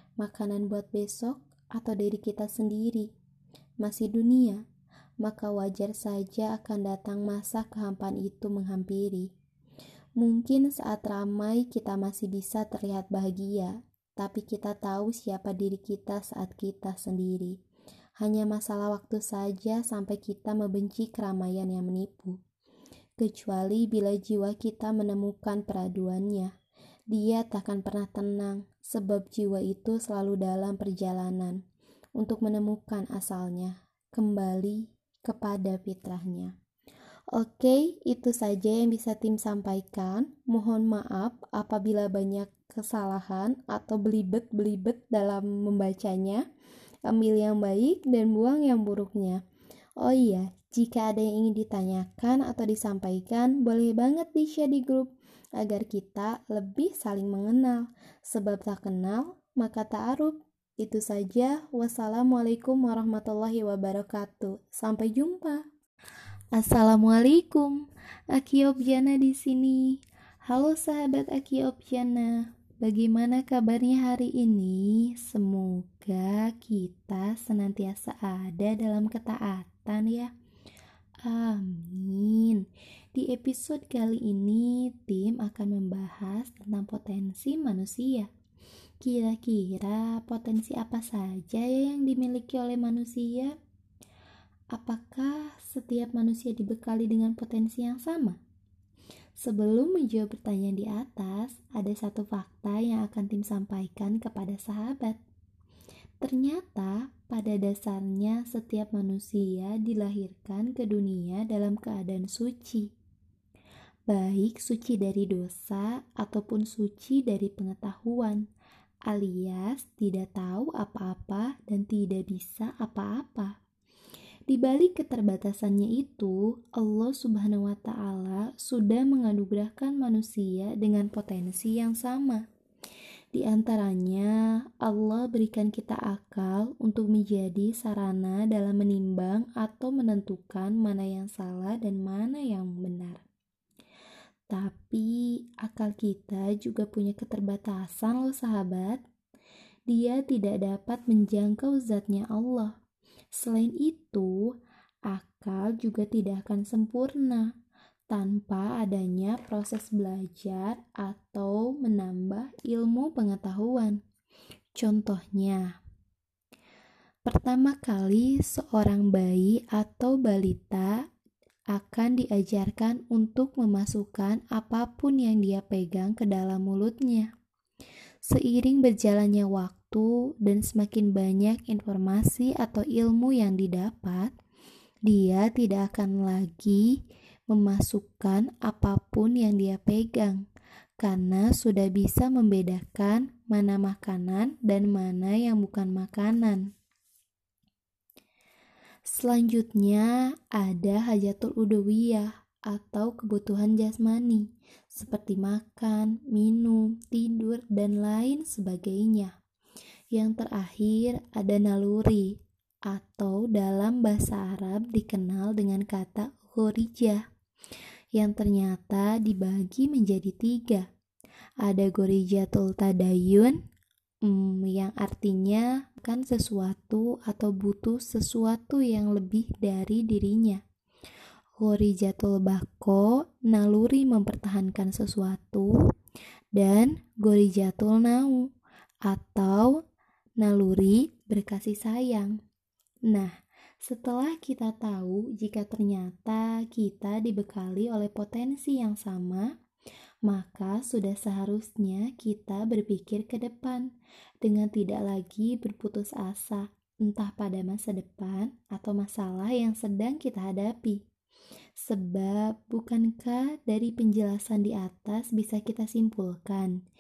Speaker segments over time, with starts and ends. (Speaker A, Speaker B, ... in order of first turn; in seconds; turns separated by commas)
Speaker A: 0.2-3.1, Speaker A: 3.8-4.6, Speaker A: 5.2-9.3, Speaker A: 10.2-17.6, Speaker A: 18.2-22.4, Speaker A: 23.2-26.5, Speaker A: 27.1-31.6, Speaker A: 32.2-36.5, Speaker A: 37.3-46.5, Speaker A: 47.1-49.4, Speaker A: 50.0-65.7, Speaker A: 66.5-80.3, Speaker A: 81.2-88.3, Speaker A: 89.0-93.6, Speaker A: 94.7-98.4, Speaker A: 99.4-105.2, Speaker A: 106.2-112.9, Speaker A: 114.1-118.5, Speaker A: 119.1-123.6, Speaker A: 124.5-132.4, Speaker A: 133.3-143.2, Speaker A: 144.5-149.0, Speaker A: 149.9-152.8, Speaker A: 153.3-154.5, Speaker A: 155.1-157.5, Speaker A: 158.1-164.0, Speaker A: 164.8-165.8, Speaker A: 167.3-171.0, Speaker A: 171.7-177.3, Speaker A: 178.2-184.3, Speaker A: 185.1-190.4, Speaker A: 191.0-196.7, Speaker A: 199.1-209.3, Speaker A: 210.1-217.2, Speaker A: 218.2-220.9, Speaker A: 221.6-223.6, Speaker A: 224.2-230.6, Speaker A: 231.6-235.8, Speaker A: 236.6-238.5, Speaker A: 239.1-239.8, Speaker A: 240.4-242.4, Speaker A: 243.1-249.5, Speaker A: 250.3-253.9, Speaker A: 254.4-261.0, Speaker A: 261.8-266.8